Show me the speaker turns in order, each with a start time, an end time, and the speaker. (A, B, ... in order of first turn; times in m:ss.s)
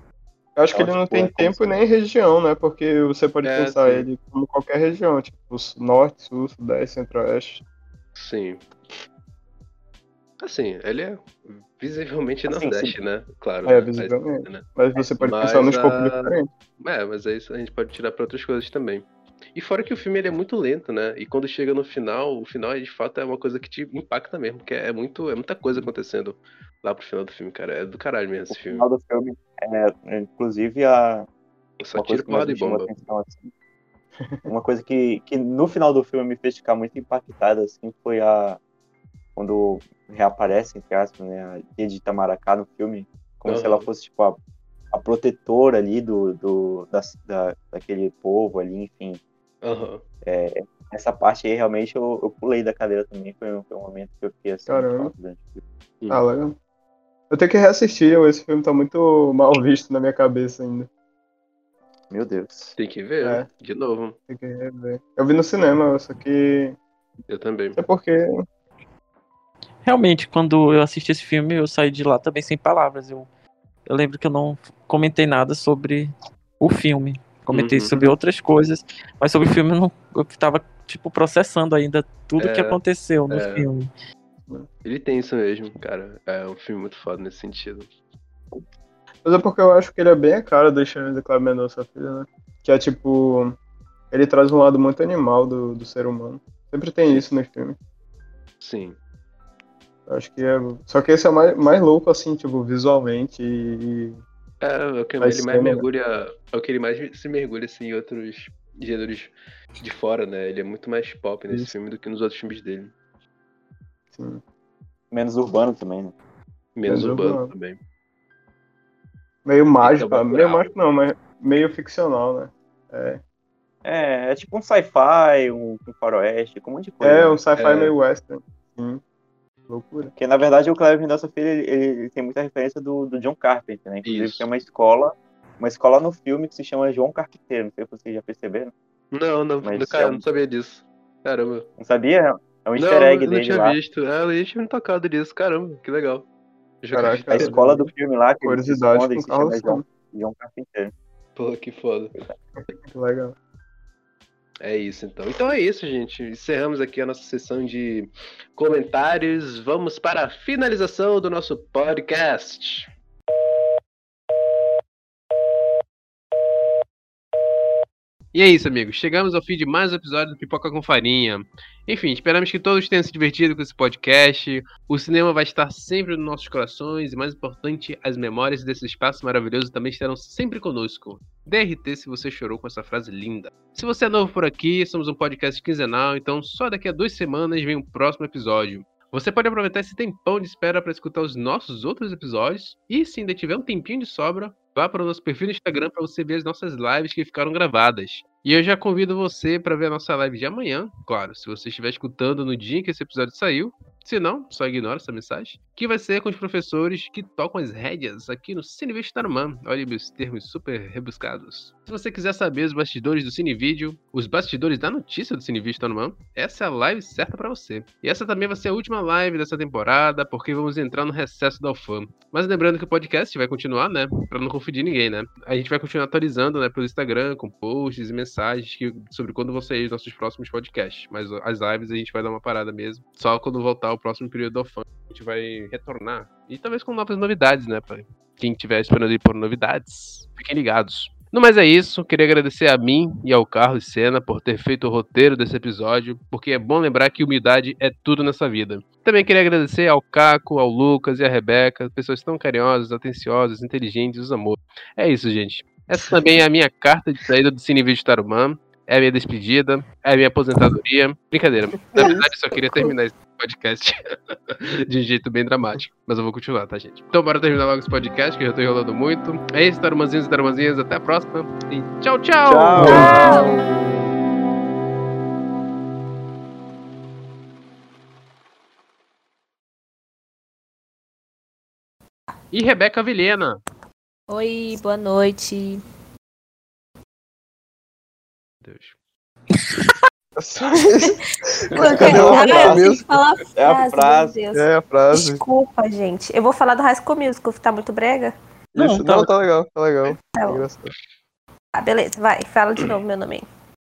0:00.6-0:07.6 A
0:00.7-0:01.8 B
0:03.4-0:04.1 C
0:08.1-0:08.6 C
0:10.4-0:14.6 C
0:12.5-0:12.9 B
0:13.6-0:16.5 A
0:15.2-0:28.9 C
0:28.5-0:31.3 B
0:31.8-0:32.9 C
0:32.0-0:33.5 B
0:34.5-0:38.6 B
0:39.4-0:44.4 B
0:43.4-0:43.9 C
0:44.9-0:49.2 B
0:49.6-0:50.0 C
0:50.2-0:55.6 B
0:54.7-0:55.1 A
0:56.1-0:56.6 A
0:57.3-1:00.9 A
1:02.1-1:02.8 B
1:02.8-1:04.2 C
1:04.3-1:06.8 A
1:07.3-1:07.8 C
1:07.8-1:08.3 A
1:09.8-1:13.3 D
1:13.8-1:23.9 D
1:17.5-1:18.0 C
1:22.4-1:23.6 C
1:24.8-1:27.9 C
1:29.2-1:33.6 A
1:34.1-1:37.8 A
1:38.6-1:39.0 C
1:40.1-1:44.2 A
1:44.6-1:52.9 C
1:45.2-1:45.8 A
1:54.1-1:54.4 A
1:55.1-1:56.1 B
1:56.8-1:57.8 C
1:56.9-1:57.5 A
1:59.4-2:03.2 A
1:59.8-2:00.7 C
2:03.8-2:07.4 B
2:07.0-2:09.0 A
2:07.6-2:07.9 C
2:09.7-2:10.1 A
2:10.2-2:18.7 B
2:14.0-2:14.4 C
2:19.1-2:21.7 C
2:19.6-2:20.2 B
2:21.8-2:23.8 B
2:22.8-2:26.2 C
2:26.8-2:27.5 C
2:26.9-2:27.9 A
2:27.3-2:30.9 B
2:28.4-2:29.8 A
2:31.4-2:32.1 C
2:32.9-2:33.4 A
2:34.6-2:42.9 C
2:48.3-4:33.1 C
4:21.9-4:22.9 A
4:32.4-4:33.5 B
4:32.8-4:33.6 E
4:42.5-4:43.6 C
4:44.3-4:45.8 E
4:48.6-4:49.0 C
4:50.4-4:53.1 A
4:51.7-4:58.3 E
4:51.9-4:52.8 B
4:53.6-4:54.4 B
4:54.5-4:55.4 A
4:58.7-5:00.9 A
4:58.8-4:59.3 D
5:00.2-5:00.7 E
5:01.8-5:03.4 E